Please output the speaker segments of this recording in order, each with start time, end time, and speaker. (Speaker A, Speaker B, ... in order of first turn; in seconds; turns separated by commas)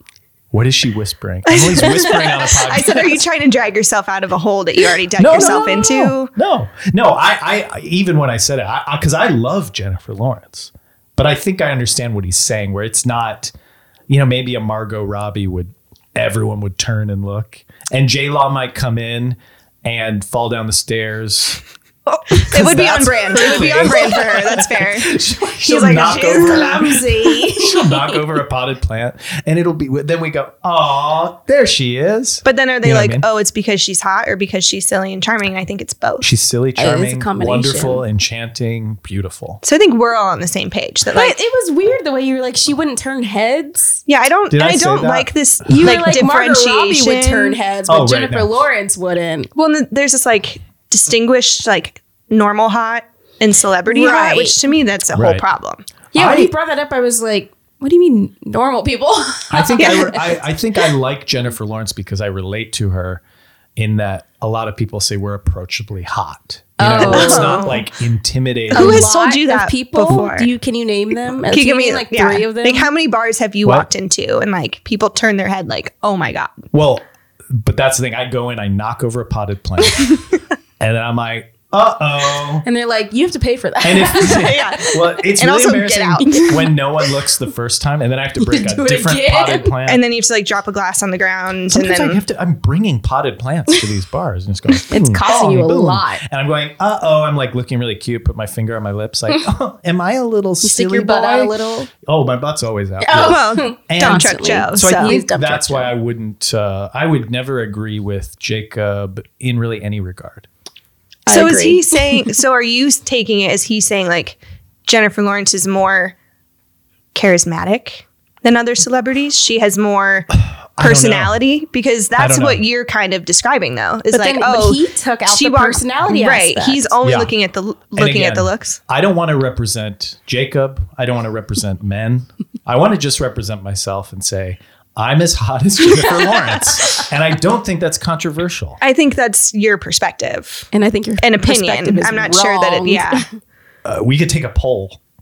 Speaker A: 0.5-3.2, Speaker B: 1.5-6.3, Speaker A: 5.2-13.5, Speaker C: 5.4-5.8, Speaker A: 14.1-21.6, Speaker B: 22.2-26.9, Speaker A: 22.4-33.3, Speaker C: 26.0-28.0, Speaker B: 32.4-36.3, Speaker A: 36.2-39.6, Speaker C: 36.8-38.0, Speaker B: 39.6-41.4, Speaker C: 41.1-44.0, Speaker B: 44.1-47.6, Speaker A: 44.5-46.0, Speaker C: 45.6-49.5, Speaker A: 47.9-48.5, Speaker B: 49.5-55.9, Speaker C: 53.9-54.6, Speaker A: 55.1-55.4, Speaker C: 56.1-60.1, Speaker A: 56.1-56.5, Speaker A: 59.5-63.2, Speaker B: 59.8-60.2, Speaker A: 63.8-69.1, Speaker C: 66.8-67.7, Speaker B: 66.8-67.9, Speaker B: 68.7-70.5, Speaker C: 68.7-72.9, Speaker B: 71.5-76.7, Speaker A: 76.7-80.2, Speaker A: 80.8-82.7, Speaker C: 82.6-84.7, Speaker A: 83.8-90.0, Speaker B: 84.2-86.7, Speaker C: 86.2-86.7, Speaker C: 88.4-89.8, Speaker B: 89.9-92.2, Speaker A: 91.7-110.5, Speaker C: 94.9-96.2, Speaker C: 100.6-101.9, Speaker C: 103.0-105.9, Speaker B: 103.1-105.2, Speaker C: 111.3-112.3, Speaker B: 111.3-116.2, Speaker B: 117.1-128.8, Speaker A: 120.4-121.4, Speaker A: 122.2-122.6, Speaker C: 124.1-126.9, Speaker A: 127.0-127.3, Speaker A: 128.0-138.8, Speaker B: 138.8-140.7, Speaker C: 140.7-143.3, Speaker B: 141.2-143.3, Speaker A: 143.8-145.0